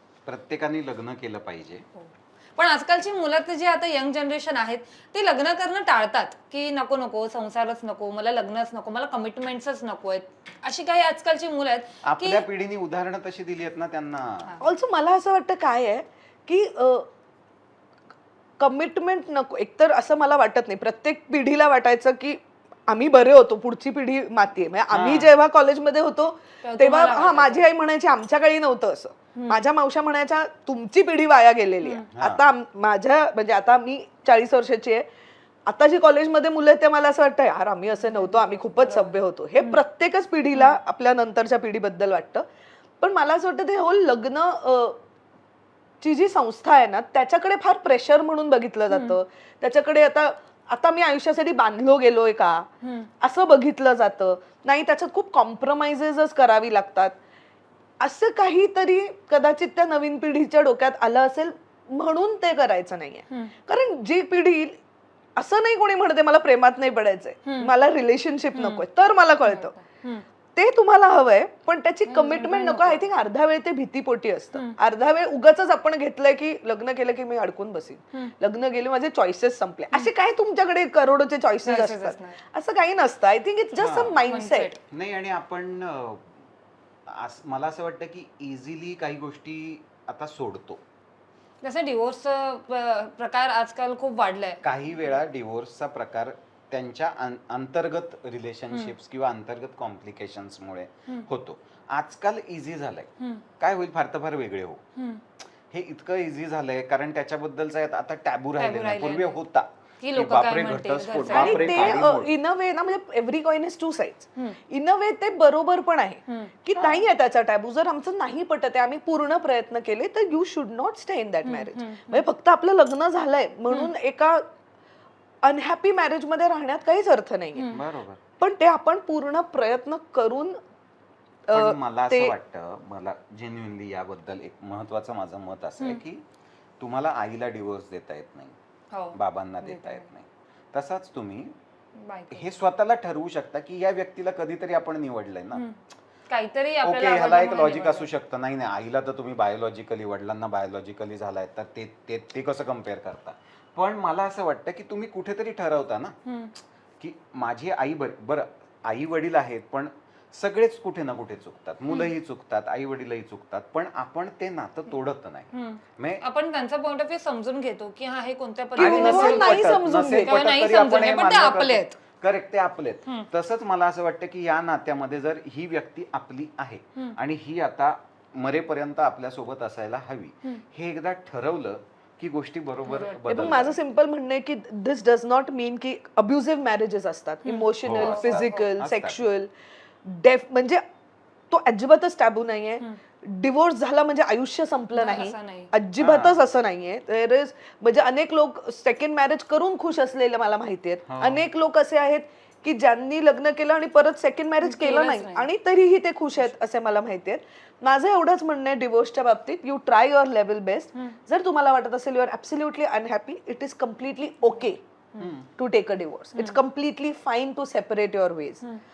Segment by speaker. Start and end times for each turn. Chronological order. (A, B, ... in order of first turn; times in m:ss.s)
0:00.3-0:01.8 A
0:02.0-0:12.4 B
0:12.1-0:14.5 A
0:14.6-0:17.1 C
0:18.6-0:35.1 C
0:24.9-0:25.3 A
0:26.6-0:27.7 B
0:29.3-0:29.6 B
0:32.1-0:32.4 A
0:35.7-0:42.4 C
0:38.0-0:39.1 B
0:43.0-0:45.0 C
0:46.0-0:52.7 C
0:48.9-0:49.2 B
0:52.8-0:53.1 B
0:53.2-0:57.1 C
0:58.0-1:04.8 C
1:05.4-1:09.7 C
1:07.5-1:07.7 B
1:08.5-1:08.8 B
1:09.4-1:10.3 B
1:10.6-1:24.7 C
1:12.1-1:13.1 B
1:21.6-1:22.4 B
1:23.8-1:24.2 A
1:24.2-1:24.8 B
1:24.9-1:26.3 A
1:27.1-1:30.8 A
1:31.6-1:34.6 B
1:34.6-1:44.8 A
1:45.0-1:45.2 B
1:45.7-1:52.3 A
1:48.6-1:49.4 B
1:50.0-1:52.0 B
1:51.2-2:04.4 C
1:56.8-1:57.1 A
2:01.4-2:02.3 B
2:05.4-2:07.7 C
2:07.6-2:07.8 B
2:07.7-2:08.2 A
2:08.4-2:10.6 C
2:11.5-2:12.3 C
2:11.5-2:16.2 A
2:16.8-2:18.6 A
2:18.9-2:20.1 B
2:19.1-2:21.5 A
2:22.0-2:22.5 B
2:22.3-2:25.6 A
2:25.6-2:28.1 B
2:26.8-2:36.1 A
2:36.3-2:36.6 B
2:37.0-2:46.2 A
2:45.5-2:52.0 B
2:48.8-2:50.4 C
2:48.8-3:03.8 A
3:02.9-3:03.7 B
3:03.3-3:09.5 C
3:07.4-3:08.7 B
3:07.8-3:09.2 A
3:10.0-3:10.8 C
3:11.5-3:34.8 C
3:15.0-3:15.7 B
3:16.0-3:16.4 A
3:21.1-3:21.4 A
3:24.6-3:25.5 B
3:35.2-3:35.5 A
3:35.6-3:38.6 C